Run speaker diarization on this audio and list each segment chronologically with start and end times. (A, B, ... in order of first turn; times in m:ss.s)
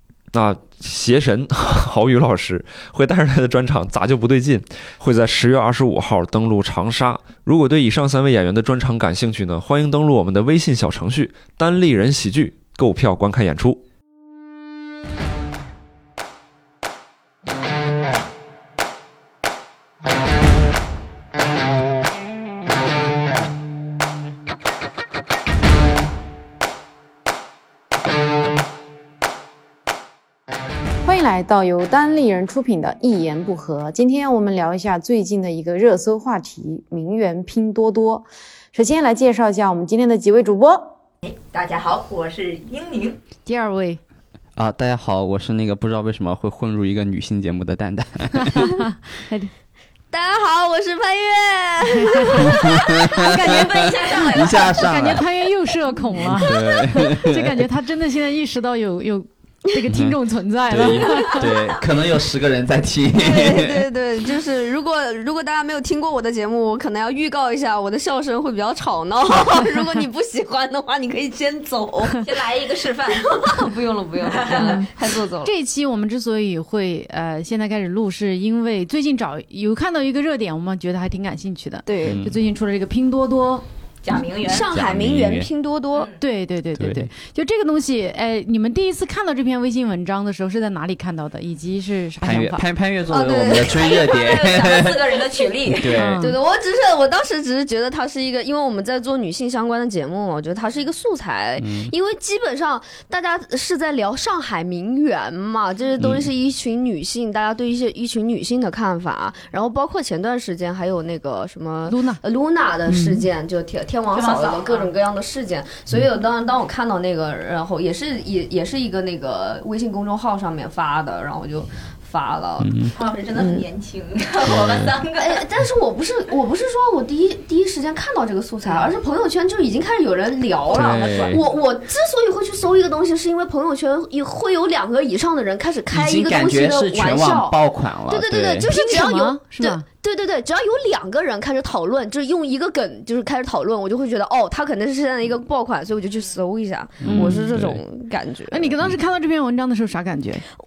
0:00.3-0:13.8 A
0:31.1-0:38.2 B
0:31.1-0:38.1 C
0:38.7-0:40.8 B
0:38.9-0:40.7 C
0:41.2-0:43.2 D
0:43.4-0:44.0 C
0:44.6-0:48.8 E
0:48.4-0:49.5 C
0:50.1-0:53.0 F
0:52.0-1:01.5 C
0:52.4-0:55.3 E
0:53.2-0:55.1 D
0:56.2-0:57.7 E
0:56.5-0:56.7 F
0:59.9-1:03.8 E
1:03.1-1:12.2 F
1:12.1-1:14.9 D
1:13.2-1:15.5 F
1:14.5-1:14.9 C
1:15.4-1:23.6 C
1:21.8-1:22.2 F
1:22.0-1:22.4 E
1:24.0-1:24.7 D
1:24.4-1:26.1 F
1:24.6-1:25.5 E
1:25.9-1:26.2 D
1:26.2-1:32.6 C
1:26.8-1:27.1 E
1:32.2-1:35.1 E
1:33.1-1:34.1 F
1:33.5-1:36.0 D
1:35.6-1:36.3 E
1:35.9-1:36.4 C
1:36.2-2:02.7 F
1:41.6-1:41.9 E
1:46.0-1:46.3 E
1:51.9-1:52.2 C
1:52.9-1:53.2 C
1:54.1-1:54.9 D
2:02.6-2:02.9 E
2:02.9-2:05.4 D
2:03.3-2:03.6 F
2:04.4-2:04.9 E
2:05.2-2:28.7 F
2:10.7-2:11.4 E
2:10.8-2:11.4 D
2:15.9-2:18.7 E
2:18.7-2:19.8 C
2:27.0-2:27.8 E
2:27.1-2:27.4 C
2:28.5-2:30.4 C